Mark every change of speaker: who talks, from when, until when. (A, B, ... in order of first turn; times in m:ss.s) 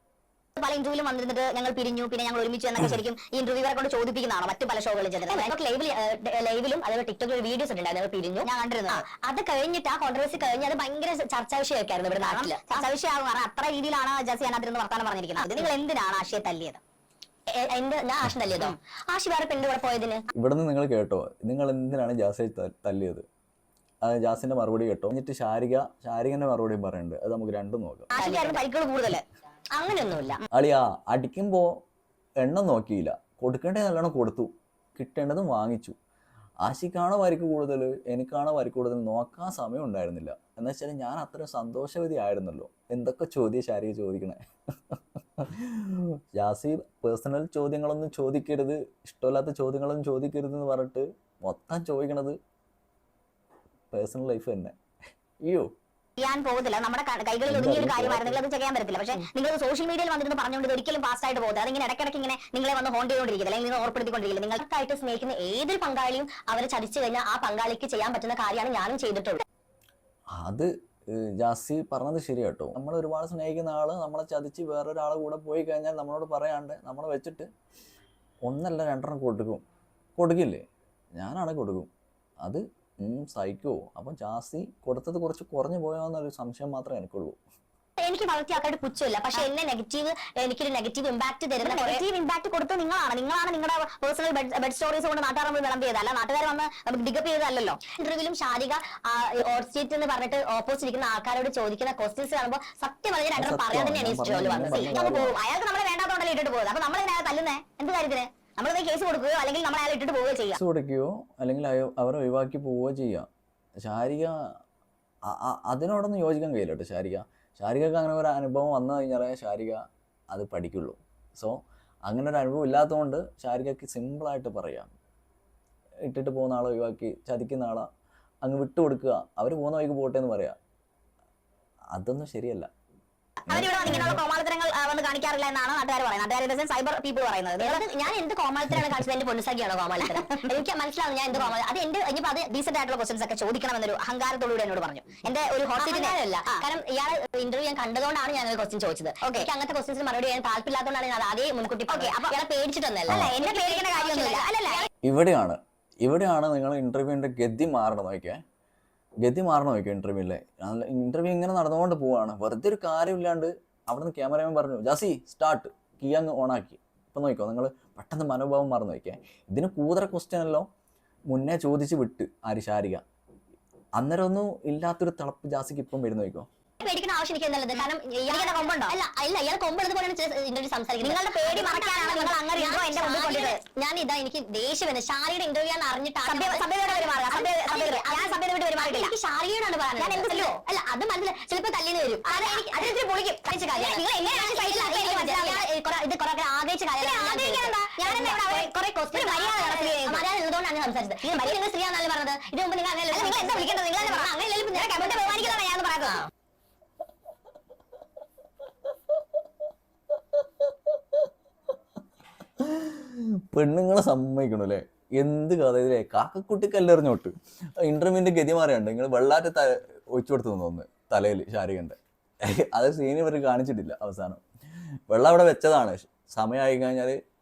0:00.6-0:05.5 A
0:05.3-0:12.9 B
0:08.4-0:09.1 A
0:12.2-0:16.8 A
0:15.4-0:15.7 B
0:17.5-0:20.3 B
0:20.4-0:23.2 C
0:24.0-0:28.1 C
0:28.1-0:29.2 A
0:28.2-0:28.6 B
0:29.8-0:30.4 B
0:30.5-0:31.8 C
0:32.4-0:36.0 C
0:36.6-0:44.4 C
0:44.9-0:52.4 C
0:53.9-0:54.7 C
0:55.4-0:55.7 C
0:56.2-1:04.6 A
0:57.5-0:58.4 C
1:04.6-1:09.4 B
1:10.4-1:17.5 C
1:18.4-1:19.6 C
1:20.2-1:20.6 C
1:21.2-1:21.9 C
1:22.4-1:27.4 C
1:28.0-1:32.0 B
1:31.6-1:37.8 A
1:37.9-1:44.9 B
1:43.4-1:45.4 C
1:44.7-1:50.6 A
1:50.5-1:53.3 C
1:53.8-1:54.6 C
1:55.2-2:04.9 C
2:06.1-2:07.9 C
2:08.4-2:10.6 C
2:11.9-2:12.7 C
2:13.5-2:17.9 A
2:13.5-2:14.1 C
2:13.8-2:14.2 B
2:17.6-2:22.5 B
2:22.5-2:26.7 A
2:25.8-2:34.9 B
2:29.2-2:29.5 A
2:31.9-2:32.3 A
2:33.1-2:33.3 C
2:33.1-2:34.9 A
2:35.0-2:38.4 C
2:39.2-2:50.7 C
2:51.3-2:53.0 C
2:54.0-2:56.5 C
2:56.8-3:26.3 B
2:57.7-2:59.0 A
3:01.0-3:03.6 A
3:06.2-3:09.1 A
3:10.0-3:10.6 A
3:12.2-3:15.7 A
3:17.0-3:20.2 A
3:23.1-3:26.3 A
3:32.6-3:44.4 C
3:45.1-3:47.2 C